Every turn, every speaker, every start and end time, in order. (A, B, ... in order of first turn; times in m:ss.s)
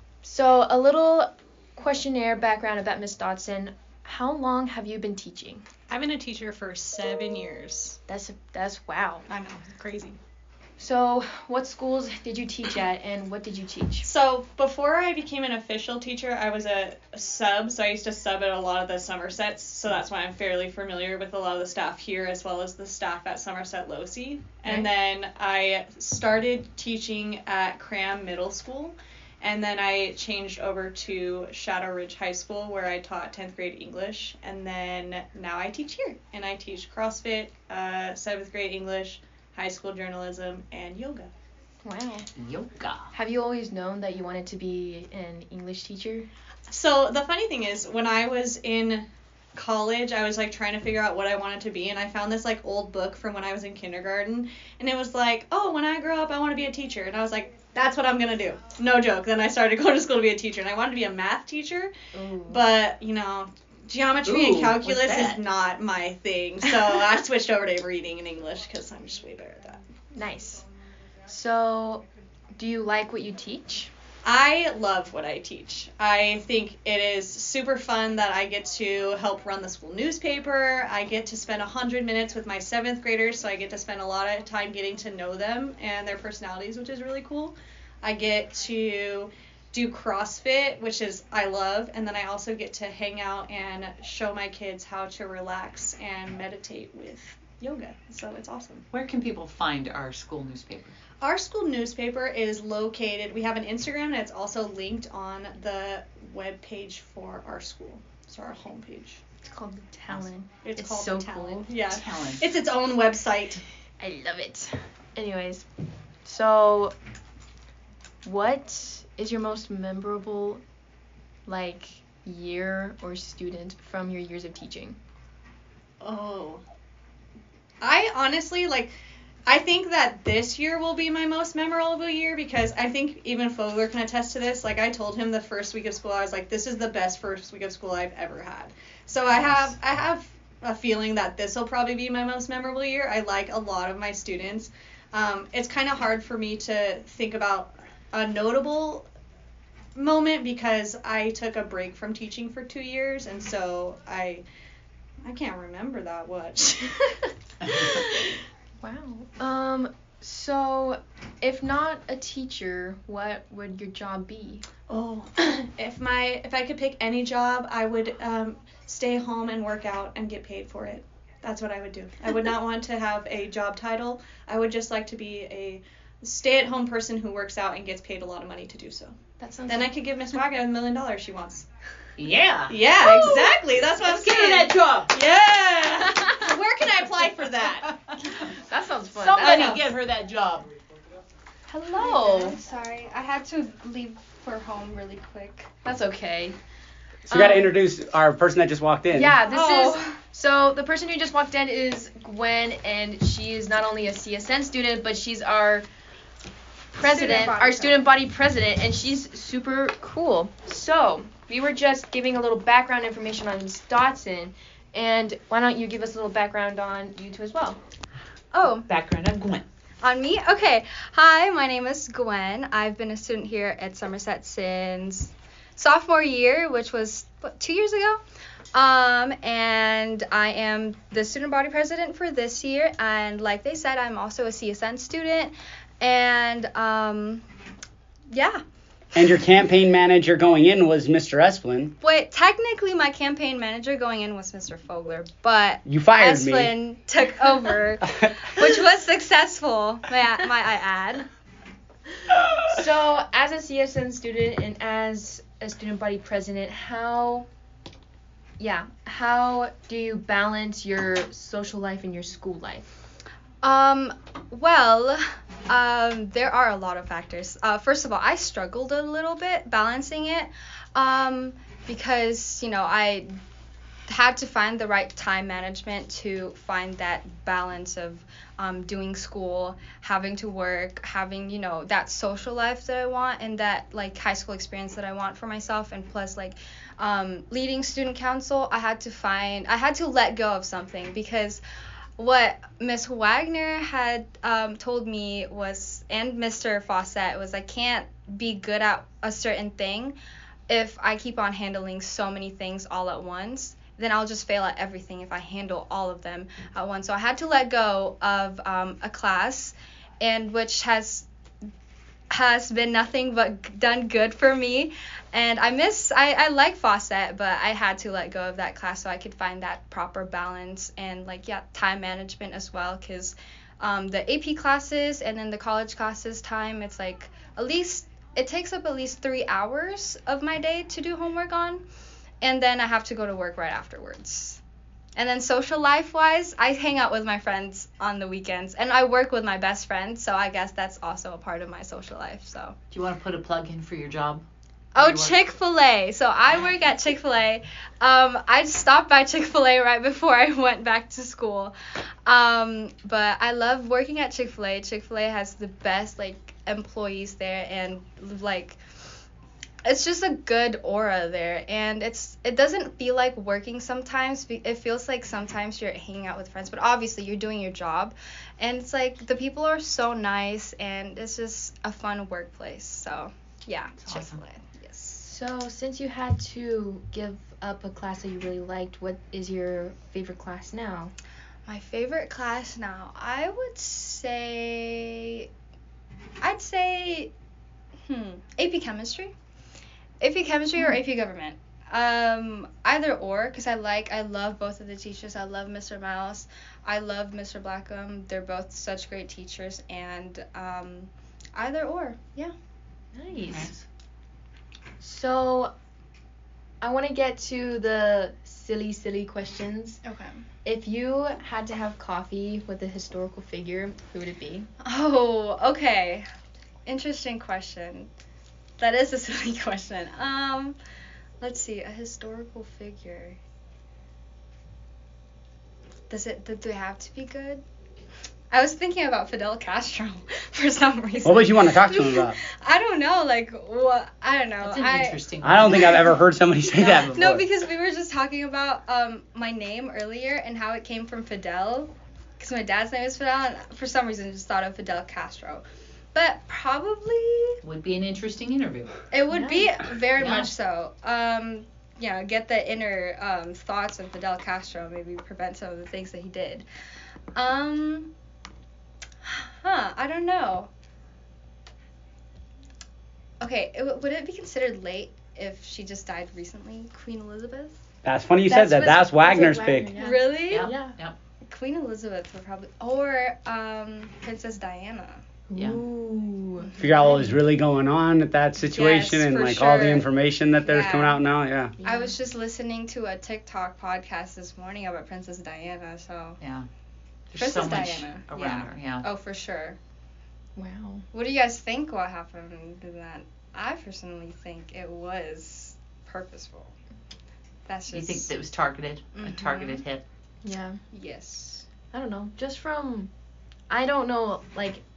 0:00.2-0:05.6 A
0:05.9-0:08.0 B
0:08.1-0:09.3 A
0:09.3-0:10.2 B
0:10.8-0:14.1 A
0:14.0-0:41.3 B
0:41.8-0:42.3 A
0:42.4-0:43.1 C
0:43.1-0:46.3 A
0:46.7-1:01.9 B
1:02.1-1:02.6 A
1:02.5-1:09.8 B
1:04.2-1:05.4 C
1:10.1-1:10.6 A
1:11.3-1:12.0 A
1:12.6-1:13.9 A
1:14.2-1:38.8 B
1:38.9-1:41.0 C
1:41.2-1:49.2 B
1:49.4-1:51.8 A
1:50.6-1:53.6 B
1:51.9-1:52.5 C
1:54.0-1:55.7 A
1:56.2-1:56.9 A
1:58.2-2:00.6 A
2:01.5-2:05.0 A
2:06.0-2:06.6 B
2:07.8-2:09.0 B
2:09.5-2:29.1 B
2:19.3-2:19.7 C
2:30.0-2:34.4 B
2:35.2-2:37.1 B
2:37.6-2:38.0 C
2:38.8-2:44.7 A
2:44.9-2:59.2 B
2:59.4-2:59.9 A
2:59.7-3:01.7 B
3:02.2-3:02.8 C
3:02.7-3:07.9 B
3:03.0-3:03.5 A
3:04.0-3:05.1 C
3:07.8-3:08.4 C
3:08.4-3:09.8 A
3:09.1-3:10.7 C
3:11.7-3:15.7 D
3:11.7-3:12.6 A
3:15.8-3:16.6 A
3:17.3-3:17.7 A
3:17.3-3:19.4 E
3:19.1-3:25.9 A
3:19.4-3:20.2 D
3:26.9-3:37.8 A
3:27.0-3:28.1 D
3:38.5-3:38.9 D
3:38.9-3:39.6 C
3:40.0-3:48.2 D
3:48.7-3:57.4 D
3:58.3-3:58.6 D
3:59.2-4:01.9 E
4:02.0-4:11.3 D
4:05.9-4:06.7 E
4:08.1-4:08.7 E
4:12.6-4:17.5 A
4:18.6-4:22.8 A
4:23.6-4:33.3 D
4:34.1-4:51.6 D
4:52.2-5:00.2 D
5:00.7-5:11.3 D
5:12.3-5:31.8 D
5:32.4-5:34.6 D
5:35.2-5:42.8 D
5:42.9-5:44.4 C
5:45.0-5:51.8 D
5:45.0-5:45.4 C
5:52.3-5:58.8 D
5:59.8-6:15.3 D
6:14.0-6:14.4 C
6:15.2-6:21.2 A
6:21.7-6:25.5 D
6:26.4-6:27.3 D
6:28.1-6:29.3 D
6:30.2-6:42.5 D
6:43.1-6:43.7 A
6:43.5-6:43.8 C
6:45.0-6:45.7 A
6:46.8-6:50.0 A
6:50.0-6:50.4 D
6:50.6-6:54.7 A
6:54.8-6:56.2 D
6:56.9-6:58.1 D
6:58.8-7:00.8 D
7:01.4-7:03.4 D
7:06.1-7:07.6 D
7:08.5-7:16.1 D
7:11.2-7:12.4 E
7:14.6-7:16.2 C
7:15.4-7:17.4 E
7:16.7-7:27.6 D
7:27.6-7:29.0 C
7:29.1-7:36.7 D
7:29.3-7:29.7 A
7:30.2-7:30.5 C
7:37.4-7:38.1 D
7:39.2-7:40.7 D
7:43.4-7:47.8 D
7:48.0-7:49.9 E
7:48.5-7:51.0 A
7:50.0-7:50.7 D
7:50.5-7:51.2 C
7:51.5-7:55.2 D
7:55.5-7:57.4 A
7:56.6-7:57.2 D
7:56.8-8:01.7 E
7:58.7-8:00.1 D
8:00.6-8:01.2 D
8:01.8-8:02.2 A
8:01.8-8:06.4 D
8:06.4-8:06.7 C
8:07.3-8:09.1 C
8:07.4-8:09.8 D
8:10.6-8:11.0 A
8:11.1-8:16.7 D
8:17.7-8:18.3 D
8:17.9-8:20.0 C
8:19.2-8:19.8 D
8:20.4-8:20.8 A
8:20.9-8:21.7 D
8:21.9-8:23.1 A
8:23.7-8:24.8 A